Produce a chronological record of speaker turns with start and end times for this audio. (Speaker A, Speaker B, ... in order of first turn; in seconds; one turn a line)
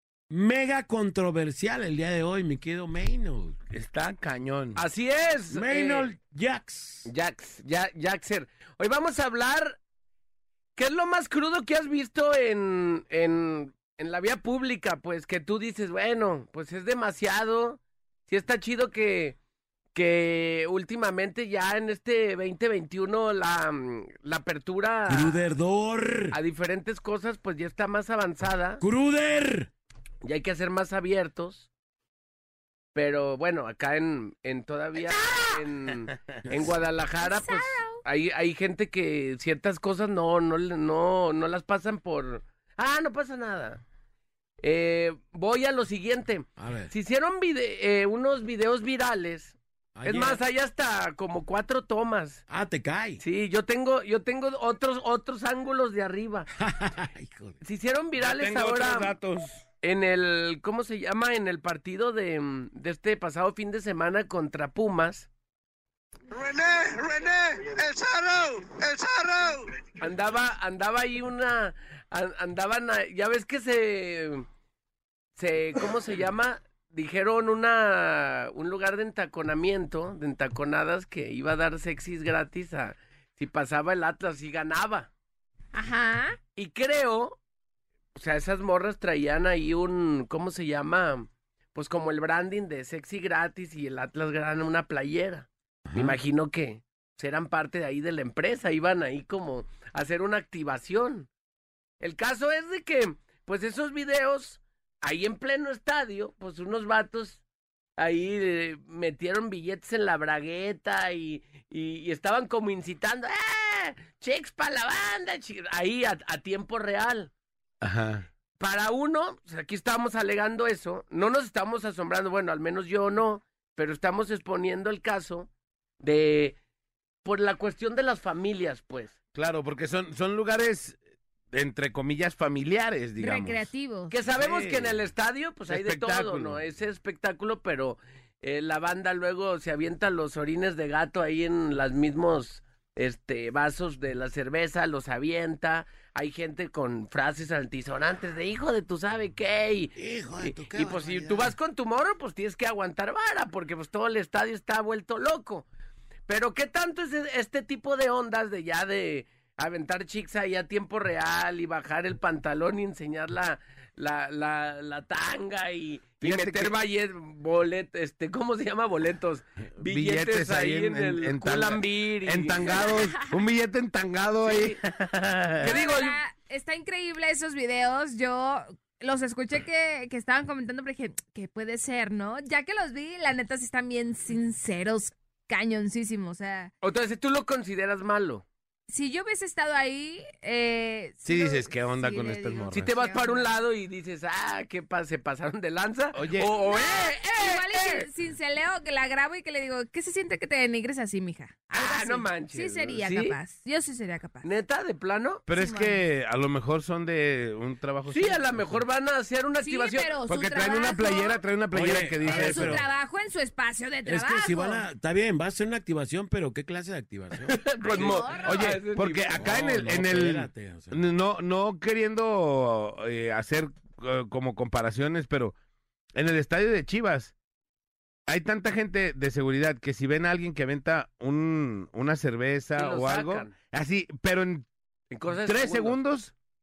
Speaker A: 0.3-3.6
Speaker B: 3.7-4.8
Speaker C: 4.8-6.1
Speaker A: 5.5-7.1
Speaker C: 7.1-9.8
Speaker C: 10.8-19.4
Speaker C: 19.9-25.4
Speaker A: 25.1-26.4
Speaker C: 26.3-28.8
Speaker A: 28.8-29.7
Speaker C: 30.2-31.7
Speaker C: 32.9-43.8
Speaker D: 35.0-35.6
Speaker D: 37.2-38.0
Speaker C: 44.6-52.4
Speaker A: 46.6-46.9
Speaker A: 50.0-50.4
Speaker A: 52.5-53.2
Speaker C: 53.2-56.5
Speaker A: 56.6-57.6
Speaker C: 57.6-59.1
Speaker B: 58.2-59.6
Speaker C: 59.8-65.3
Speaker E: 66.3-69.8
Speaker C: 70.0-74.4
Speaker C: 75.3-85.1
Speaker D: 85.7-86.4
Speaker C: 86.5-87.4
Speaker C: 88.1-101.3
Speaker A: 95.8-96.2
Speaker C: 102.0-107.4
Speaker C: 108.0-117.3
Speaker B: 117.8-118.3
Speaker C: 118.6-125.5
Speaker C: 126.0-126.5
Speaker C: 127.2-129.2
Speaker B: 129.3-131.0
Speaker B: 131.5-133.7
Speaker D: 133.2-134.1
Speaker C: 134.1-155.7
Speaker B: 134.3-135.0
Speaker B: 135.7-136.6
Speaker A: 149.9-151.5
Speaker C: 156.3-173.0
Speaker B: 166.2-166.7
Speaker B: 169.8-175.7
Speaker D: 172.7-173.4
Speaker C: 174.4-174.8
Speaker C: 175.6-176.2
Speaker D: 175.6-186.7
Speaker C: 186.8-188.4
Speaker D: 188.9-193.5
Speaker B: 191.2-192.9
Speaker C: 192.7-198.1
Speaker B: 196.1-196.5
Speaker D: 196.6-204.5
Speaker C: 201.7-203.4
Speaker C: 204.4-205.4
Speaker B: 205.5-208.8
Speaker D: 205.5-206.0
Speaker C: 208.1-210.2
Speaker D: 209.6-211.4
Speaker B: 210.3-212.8
Speaker A: 211.7-212.8
Speaker D: 212.2-214.8
Speaker A: 214.0-218.0
Speaker C: 217.5-219.4
Speaker D: 217.8-218.7
Speaker B: 218.4-225.5
Speaker A: 219.3-221.0
Speaker B: 226.1-227.3
Speaker B: 228.3-234.7
Speaker C: 232.8-233.5
Speaker C: 235.1-236.0
Speaker B: 235.4-236.3